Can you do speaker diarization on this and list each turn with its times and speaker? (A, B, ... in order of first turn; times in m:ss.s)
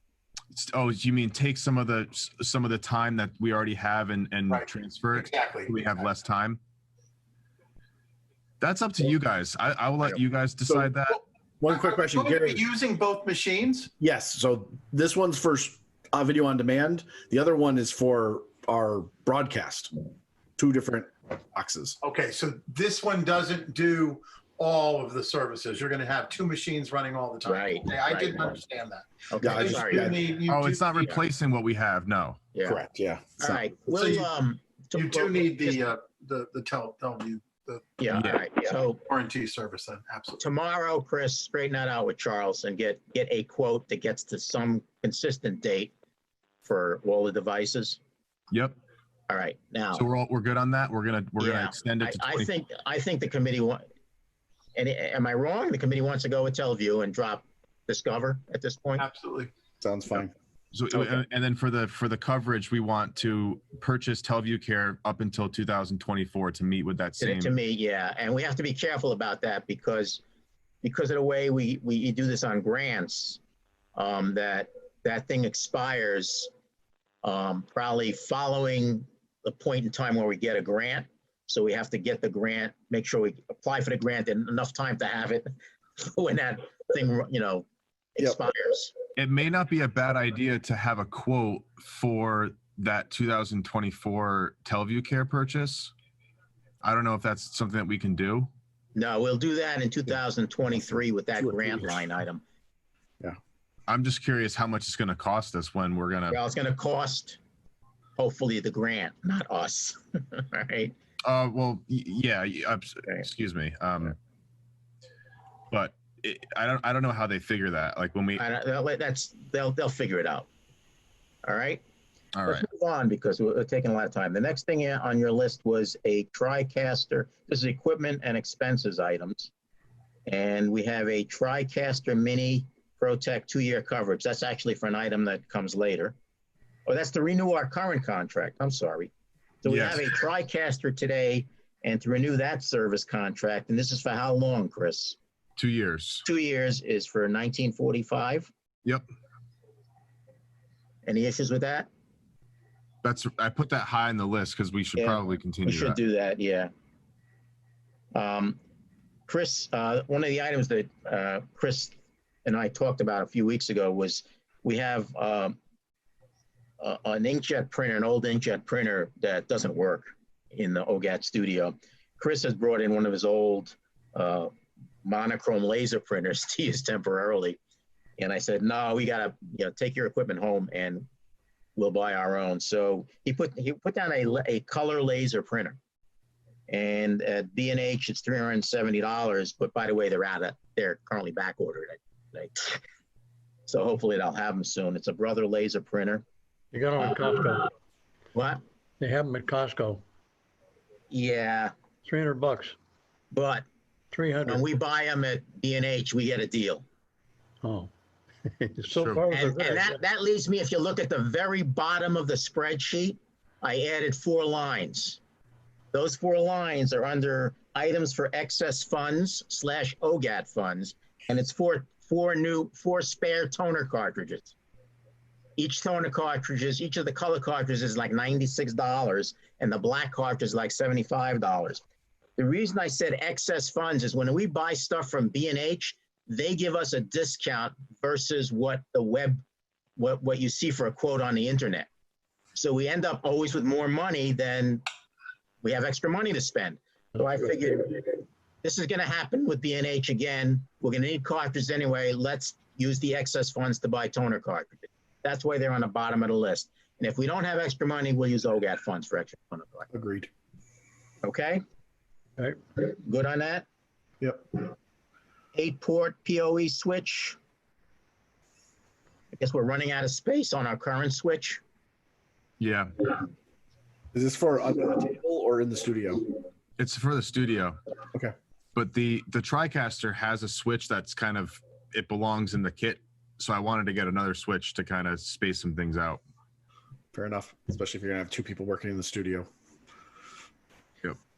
0:00.5-0:06.6 A
0:04.5-0:06.0 B
0:08.6-0:11.2 A
0:10.7-0:10.9 C
0:11.6-0:12.6 C
0:11.7-0:13.9 B
0:14.0-0:20.0 C
0:20.6-0:22.0 C
0:22.0-0:30.9 B
0:27.5-0:28.5 D
0:29.3-0:30.1 D
0:29.4-0:30.2 C
0:30.5-0:32.4 A
0:32.5-0:32.8 D
0:32.6-0:33.6 C
0:33.4-0:35.8 D
0:33.9-0:34.3 B
0:34.9-0:37.8 B
0:38.0-0:39.0 D
0:38.1-0:38.4 A
0:38.6-0:40.4 B
0:40.4-0:45.9 D
0:46.6-0:48.0 D
0:48.5-0:48.8 A
0:49.3-0:50.0 D
0:49.9-0:52.5 A
0:51.4-0:53.8 D
0:54.8-0:59.0 D
0:59.0-0:59.5 B
0:59.8-1:00.3 C
1:00.7-1:07.5 A
1:00.9-1:01.2 D
1:07.2-1:10.2 D
1:10.8-1:13.4 D
1:14.0-1:16.5 D
1:17.2-1:27.6 D
1:28.2-1:28.9 D
1:29.2-1:35.9 A
1:36.8-1:38.5 A
1:39.0-1:42.4 D
1:41.6-1:41.9 C
1:43.9-1:46.4 A
1:46.3-1:47.4 D
1:48.2-1:50.9 D
1:51.2-1:54.2 A
1:55.7-1:58.4 A
1:58.4-2:00.5 D
2:01.4-2:01.8 D
2:02.4-2:02.7 A
2:02.5-2:09.5 D
2:10.3-2:16.2 D
2:16.9-2:19.1 D
2:19.6-2:25.2 D
2:19.7-2:20.2 A
2:25.6-2:26.2 A
2:26.2-2:28.5 D
2:31.0-2:31.9 D
2:33.0-2:36.0 A
2:35.0-2:36.7 D
2:38.1-2:38.6 D
2:39.3-2:45.6 D
2:46.8-2:54.5 D
2:55.0-2:57.6 D
2:58.2-3:01.1 D
3:01.8-3:05.8 D
3:06.7-3:12.8 D
3:13.7-3:16.2 D
3:16.7-3:17.7 E
3:18.3-3:18.6 D
3:19.0-3:20.0 E
3:21.1-3:21.7 D
3:22.1-3:22.8 E
3:23.3-3:23.6 D
3:24.1-3:24.6 E
3:24.4-3:26.8 D
3:27.6-3:27.9 E
3:28.7-3:30.0 E
3:29.0-3:29.2 A
3:29.3-3:35.2 D
3:35.9-3:44.5 D
3:45.6-3:51.8 D
3:52.4-3:59.4 D
4:00.0-4:01.9 D
4:02.5-4:04.8 D
4:05.6-4:19.9 D
4:19.9-4:20.3 C
4:21.2-4:21.6 D
4:22.8-4:23.7 D
4:25.5-4:27.4 D
4:29.3-4:31.6 D
4:32.6-4:32.9 A
4:34.1-4:36.2 C
4:36.8-4:37.8 A
4:38.8-4:46.2 A
4:47.1-4:49.5 C